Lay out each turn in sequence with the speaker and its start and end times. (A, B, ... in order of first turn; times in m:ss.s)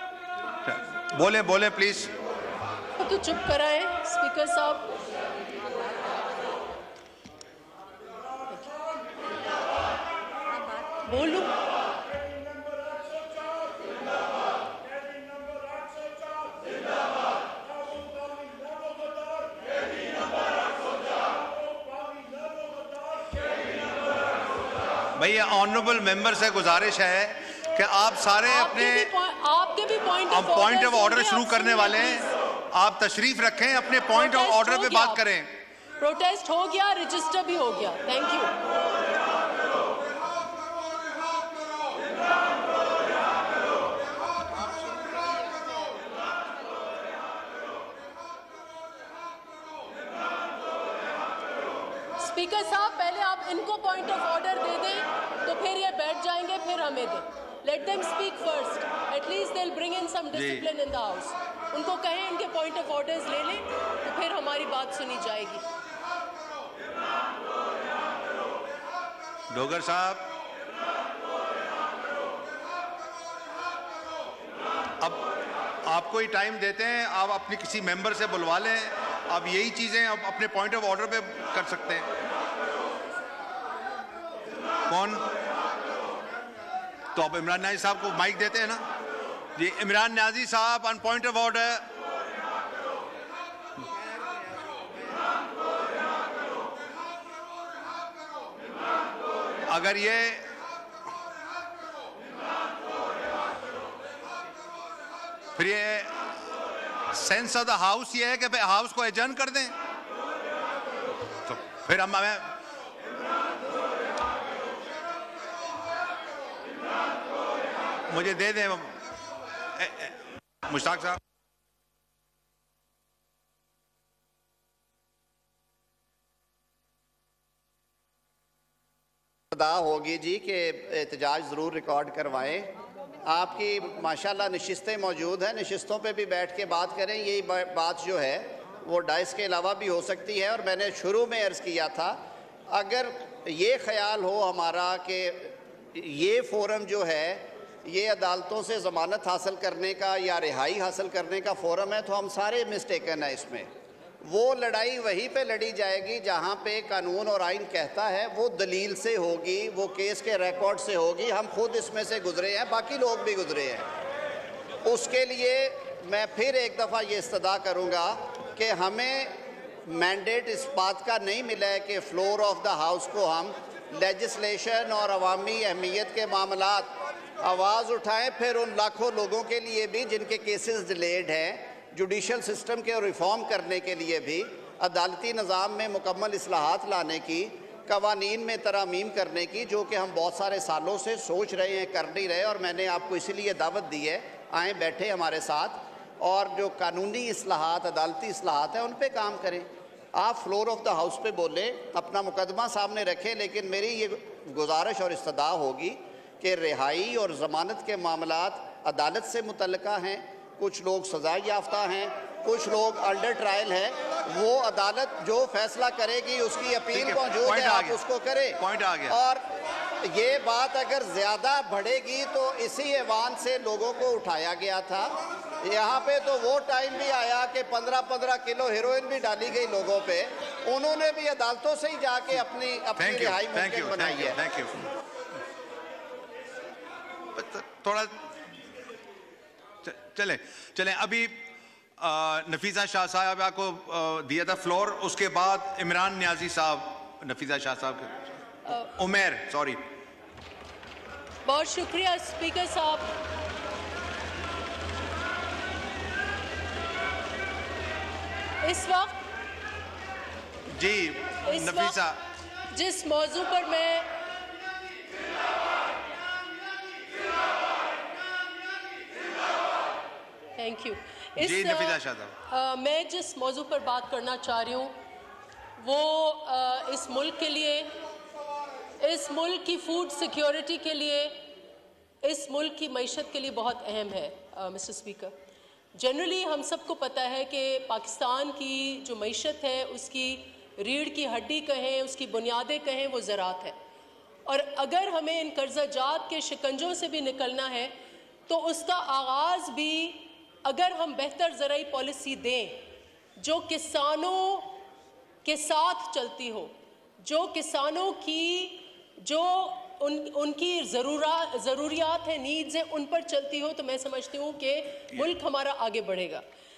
0:00.7-0:02.1 A
0:03.0-0:04.9 B
0:11.0-0:11.5 B
0:25.2-0:29.1 A
0:28.5-0:32.3 B
0:30.3-0:35.5 A
0:34.1-0:35.2 B
0:36.0-0:38.5 B
0:52.2-1:05.6 B
1:00.3-1:00.6 A
1:09.5-1:10.2 A
1:15.0-1:15.3 A
1:15.8-1:22.1 A
1:24.9-1:25.2 A
1:27.2-1:28.8 A
1:29.6-1:31.8 A
1:39.7-1:40.4 A
1:45.6-1:46.1 A
1:47.1-1:49.7 A
1:51.5-1:52.5 A
1:58.1-1:58.9 A
1:59.8-2:00.1 A
2:00.7-2:01.2 A
2:09.5-2:12.7 C
2:13.2-2:22.2 C
2:22.7-2:33.7 C
2:34.2-2:43.9 C
2:44.9-2:49.3 C
2:49.9-2:56.9 C
2:57.4-3:38.6 C
3:36.9-3:38.0 A
3:38.6-3:39.2 A
3:39.1-3:39.4 C
3:40.1-3:54.4 C
3:53.0-3:54.8 A
3:57.4-3:58.1 A
3:59.8-4:01.3 A
4:02.0-4:08.3 A
4:09.0-4:09.8 A
4:11.4-4:13.1 B
4:18.6-4:19.2 B
4:20.7-4:22.2 A
4:21.4-4:22.0 B
4:22.7-4:24.1 B
4:30.6-4:34.9 B
4:31.4-4:32.4 A
4:35.8-4:37.9 B
4:39.0-4:41.4 B
4:42.2-4:45.3 B
4:45.9-4:53.8 B
4:54.5-4:57.9 B
4:58.5-5:02.8 B
5:03.4-5:04.8 B
5:05.4-5:16.4 B